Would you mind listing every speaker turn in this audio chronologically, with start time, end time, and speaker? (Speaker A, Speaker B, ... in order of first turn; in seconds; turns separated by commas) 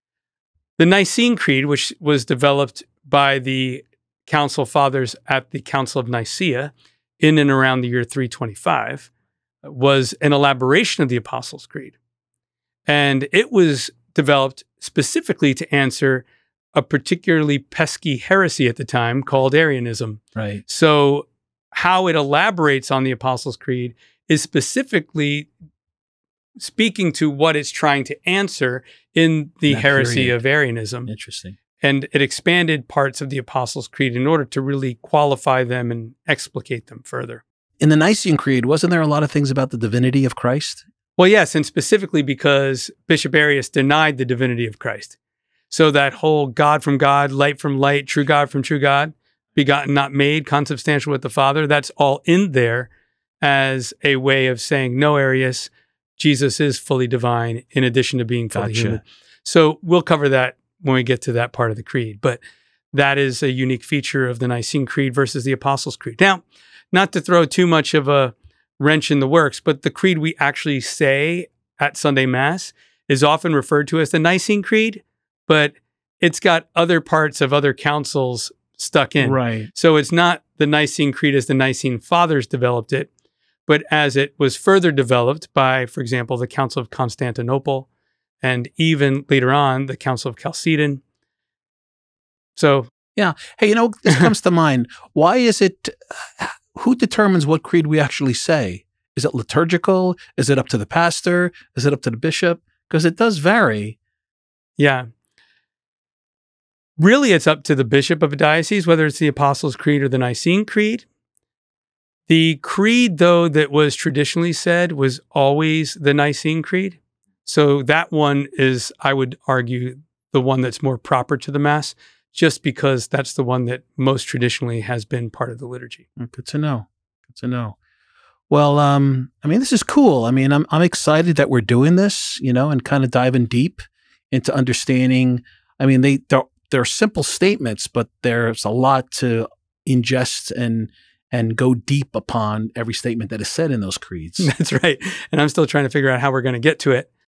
Speaker A: 0.8-9.1, Speaker A: 9.7-12.0, Speaker A: 12.9-25.5, Speaker B: 20.4-20.6, Speaker A: 26.6-31.1, Speaker B: 29.7-30.4, Speaker B: 31.1-31.6, Speaker A: 31.8-37.4, Speaker B: 37.8-40.8, Speaker A: 41.2-45.2, Speaker A: 45.7-52.9, Speaker A: 53.4-62.4, Speaker B: 58.5-59.0, Speaker A: 62.9-83.1, Speaker B: 79.2-79.7, Speaker A: 83.7-87.9, Speaker A: 88.4-91.0, Speaker A: 92.6-92.9, Speaker B: 93.2-104.0, Speaker A: 104.8-105.1, Speaker A: 107.0-111.1, Speaker A: 112.3-126.0, Speaker B: 126.2-127.8, Speaker B: 128.5-144.5, Speaker A: 144.4-147.1